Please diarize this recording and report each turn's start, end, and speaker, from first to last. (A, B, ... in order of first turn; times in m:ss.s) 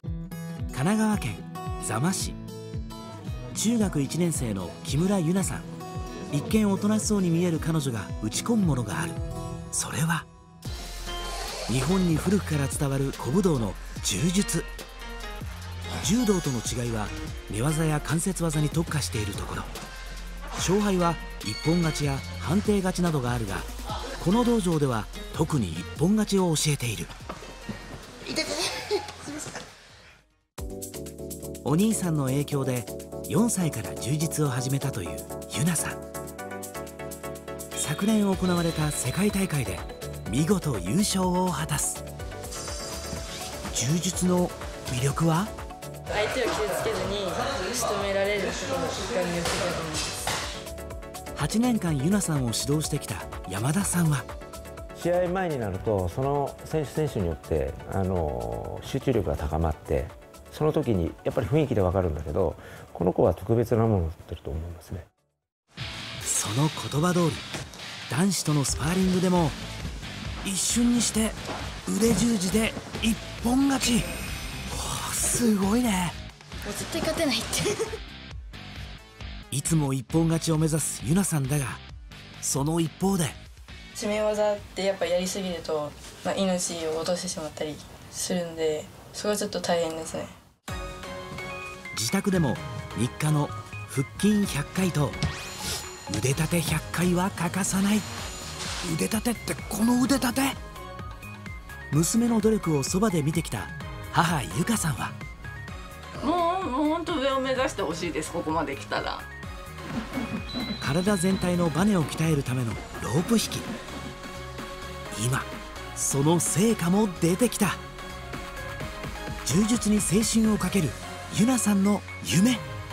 0:00.7-0:02.4 A
0:03.5-0:05.7 A
0:06.3-0:10.3 A
0:11.7-0:14.7 A
0:15.9-0:19.7 A
0:20.6-0:23.7 A
0:24.2-0:27.1 A
0:31.6-0:36.0 A
0:37.8-0:42.0 A
0:43.7-0:45.5 A
0:46.1-0:50.3 B
0:51.4-0:54.3 A
0:55.0-1:05.1 C
1:06.2-1:07.5 A
1:08.1-1:09.6 A
1:10.4-1:14.1 A
1:14.7-1:16.2 A
1:16.6-1:18.0 B
1:19.5-1:21.8 A
1:22.4-1:23.4 A
1:23.9-1:30.4 B
1:31.9-1:35.2 A
1:36.1-1:38.1 A
1:38.8-1:40.6 A
1:41.9-1:45.2 A
1:46.2-1:49.3 D
1:50.8-1:53.7 A
1:55.1-1:57.8 A
1:59.4-2:02.6 A